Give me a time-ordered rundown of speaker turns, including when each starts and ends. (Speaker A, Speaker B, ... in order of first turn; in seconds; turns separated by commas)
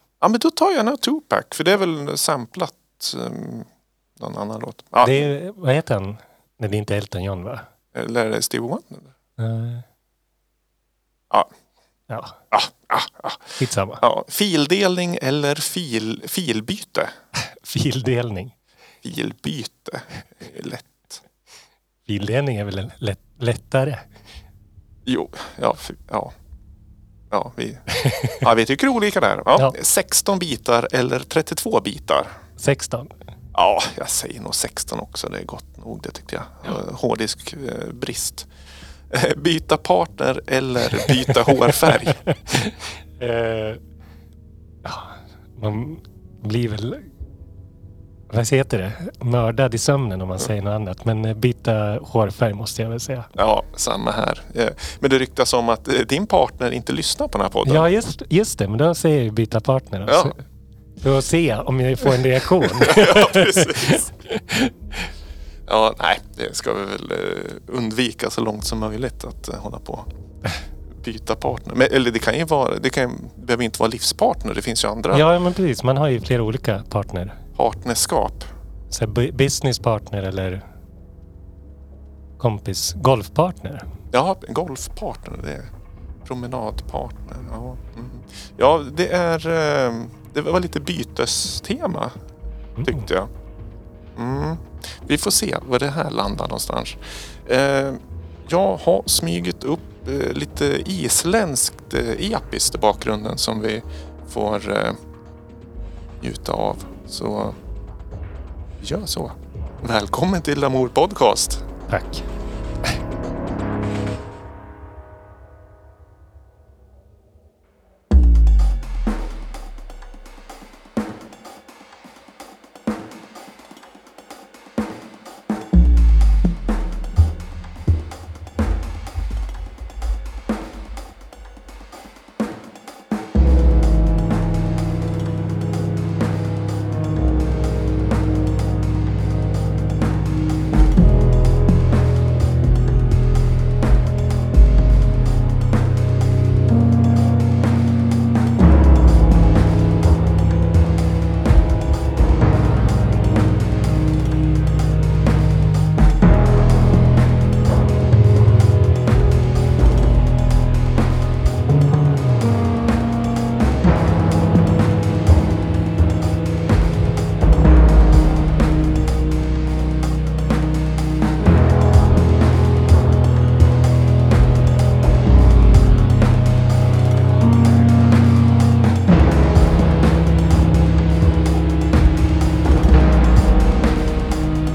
Speaker A: 0.2-5.3, Speaker B: 5.0-7.7, Speaker A: 7.9-9.1, Speaker B: 9.4-9.8, Speaker B: 12.1-12.4, Speaker A: 12.5-17.1, Speaker B: 13.6-14.0, Speaker B: 17.4-18.5, Speaker A: 19.0-21.2, Speaker B: 22.1-24.1, Speaker A: 25.1-26.3, Speaker A: 27.3-27.8, Speaker B: 27.9-28.4, Speaker A: 28.4-32.3, Speaker B: 32.6-33.1, Speaker A: 33.5-38.5, Speaker A: 39.1-42.2, Speaker B: 41.9-43.8, Speaker B: 44.8-47.1, Speaker B: 48.3-53.3, Speaker A: 53.3-57.9, Speaker B: 57.6-60.4, Speaker A: 60.1-60.4, Speaker B: 61.0-65.1, Speaker A: 62.2-64.1, Speaker A: 65.7-70.1, Speaker A: 71.0-75.2, Speaker B: 75.1-77.4, Speaker A: 77.6-78.5, Speaker B: 78.9-80.6, Speaker B: 82.4-83.9, Speaker A: 84.1-85.7, Speaker A: 86.2-92.2, Speaker B: 92.8-93.0, Speaker A: 92.8-93.3, Speaker A: 94.2-105.0, Speaker A: 106.2-107.6, Speaker A: 108.8-111.7, Speaker B: 111.9-112.2